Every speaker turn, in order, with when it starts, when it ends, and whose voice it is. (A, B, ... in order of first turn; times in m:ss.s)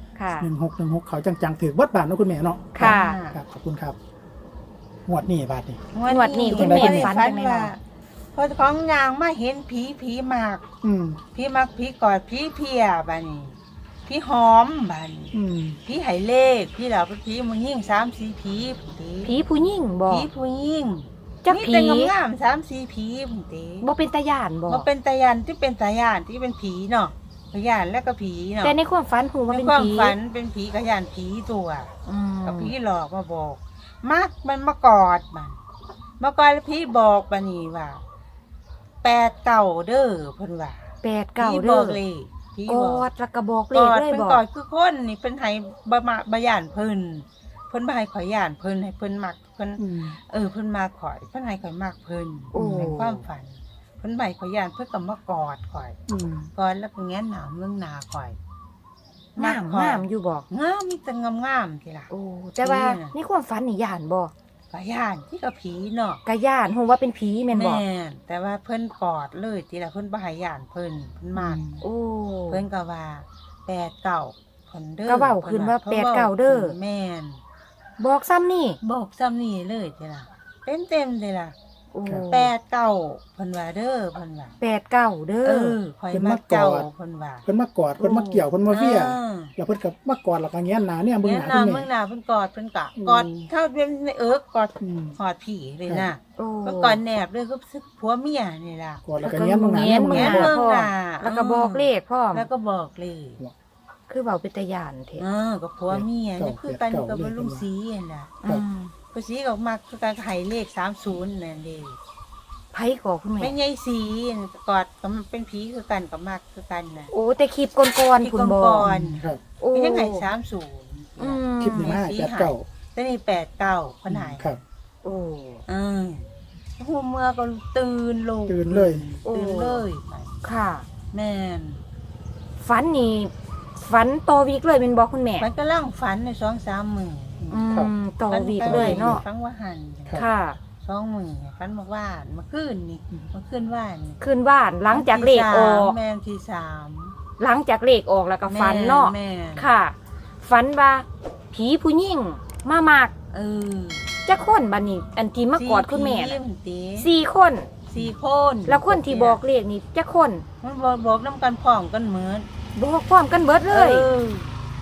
0:00.2-0:00.5 A
0:00.4-0:04.0 B
0:02.7-0:03.2 A
0:02.8-0:03.4 C
0:05.1-0:05.8 B
0:05.9-0:07.8 C
0:06.1-0:07.7 A
0:06.5-0:07.2 B
0:08.3-0:10.6 C
0:10.8-0:11.2 B
0:11.3-0:13.6 C
0:14.1-0:19.4 C
0:15.3-0:15.8 B
0:19.2-0:20.3 A
0:20.1-0:23.9 C
0:21.4-0:22.1 A
0:23.8-0:24.9 A
0:24.7-0:28.8 C
0:28.6-0:30.2 A
0:29.5-0:31.9 C
0:32.0-0:32.7 A
0:32.4-0:35.6 C
0:36.2-0:38.0 C
0:39.0-0:43.1 C
0:41.0-0:42.0 A
0:42.7-0:44.4 A
0:43.7-0:56.0 C
0:49.8-0:50.1 B
0:52.5-0:53.2 A
0:52.5-0:53.0 B
0:56.1-0:56.5 B
0:56.5-0:58.4 C
0:59.4-1:03.1 C
0:59.4-1:00.4 A
1:02.1-1:04.3 A
1:04.7-1:06.2 C
1:06.2-1:07.8 A
1:07.5-1:11.6 C
1:11.4-1:11.8 B
1:11.8-1:12.6 A
1:12.5-1:17.4 C
1:15.1-1:16.8 A
1:18.0-1:18.8 A
1:18.8-1:21.5 C
1:21.9-1:22.5 A
1:22.3-1:24.6 C
1:24.6-1:25.8 A
1:25.4-1:27.4 C
1:26.1-1:26.9 B
1:27.4-1:31.9 B
1:28.0-1:28.4 A
1:28.7-1:29.5 C
1:31.2-1:39.0 C
1:33.0-1:33.5 B
1:34.8-1:35.2 B
1:36.4-1:37.0 A
1:39.0-1:40.5 B
1:39.2-1:42.5 A
1:39.8-1:43.4 C
1:44.1-1:45.2 A
1:45.2-1:48.3 C
1:45.9-1:47.6 B
1:48.4-1:48.9 A
1:49.1-1:52.0 C
1:52.7-1:53.6 A
1:53.4-1:57.1 C
1:57.1-1:58.8 A
1:58.2-2:04.4 C
1:58.8-1:59.4 B
1:59.6-2:00.2 A
2:01.2-2:02.0 A
2:01.6-2:02.6 B
2:04.1-2:04.6 B
2:05.0-2:05.6 A
2:05.7-2:10.3 C
2:08.5-2:09.0 B
2:09.2-2:09.8 A
2:10.4-2:10.8 A
2:11.1-2:11.8 C
2:12.6-2:15.5 A
2:15.4-2:17.5 C
2:17.4-2:17.9 B
2:17.5-2:19.2 A
2:18.3-2:20.2 C
2:18.6-2:19.2 B
2:20.1-2:20.6 A
2:20.8-2:24.2 C
2:24.2-2:26.0 A
2:24.9-2:27.1 C
2:27.4-2:33.1 A
2:28.5-2:29.7 C
2:33.3-2:34.1 C
2:34.2-2:36.4 A
2:35.6-2:37.1 C
2:37.0-2:37.7 A
2:37.9-2:39.4 C
2:38.6-2:40.4 A
2:40.6-2:42.5 C
2:42.8-2:44.0 A
2:43.7-2:44.5 C